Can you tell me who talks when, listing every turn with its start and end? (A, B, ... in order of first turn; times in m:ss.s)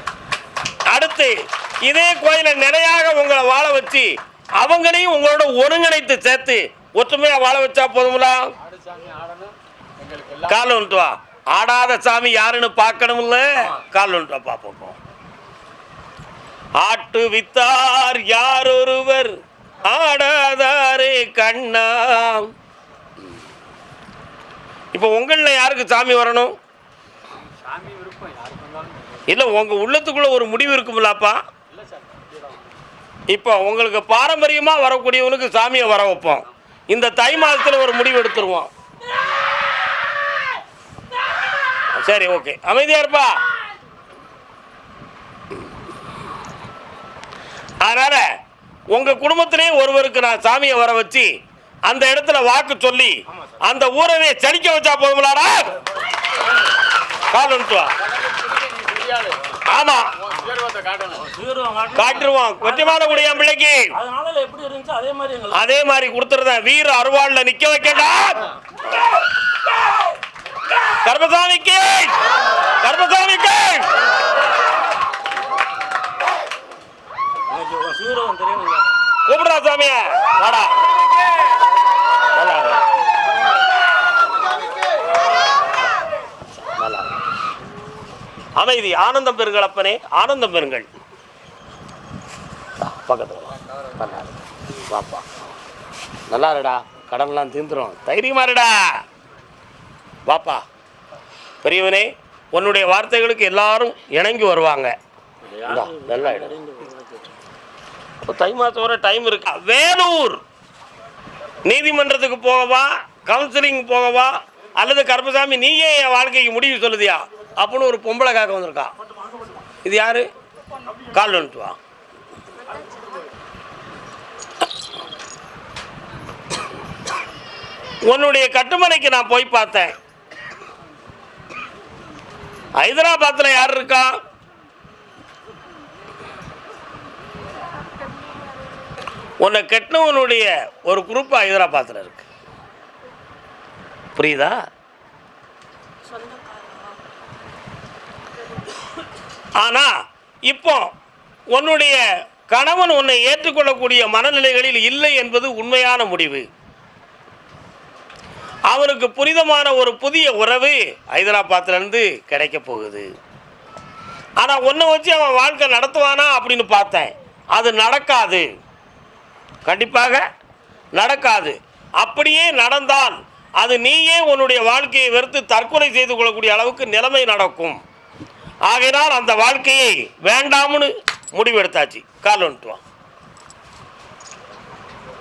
0:00.9-0:08.5 A
0:08.6-0:10.5 B
0:10.5-0:15.0 A
0:16.8-0:22.5 A
0:24.9-0:26.5 A
0:27.4-0:29.2 B
0:29.3-0:31.4 A
0:31.7-0:32.7 B
0:33.3-0:38.7 A
0:41.9-0:43.4 A
0:47.8-0:48.2 A
0:48.9-0:51.3 A
0:51.9-0:55.8 A
0:57.3-0:57.9 A
0:58.3-0:59.5 B
0:59.6-1:00.2 A
1:00.4-1:01.3 B
1:01.2-1:02.2 C
1:01.9-1:04.0 A
1:04.0-1:05.6 C
1:05.5-1:08.5 A
1:11.0-1:12.2 A
1:12.8-1:13.9 A
1:17.5-1:18.9 C
1:19.2-1:20.8 A
1:22.4-1:22.8 A
1:26.6-1:27.2 A
1:28.6-1:30.9 A
1:32.8-1:34.3 A
1:34.9-1:35.3 A
1:36.3-1:39.0 A
1:40.3-1:40.6 A
1:41.6-1:44.9 A
1:45.4-1:47.3 C
1:45.6-1:46.6 A
1:48.2-1:50.4 A
1:51.6-1:58.9 A
1:59.8-2:00.2 A
2:01.1-2:01.8 A
2:08.1-2:09.9 A
2:12.8-2:14.1 A
2:19.4-2:22.2 A
2:24.2-2:24.6 A
2:29.6-2:29.9 A
2:30.5-2:30.9 A
2:31.5-2:36.5 A
2:38.7-2:43.1 A
2:44.4-2:48.5 A
2:49.6-2:50.2 A
2:51.0-2:57.8 A
2:58.7-3:02.8 A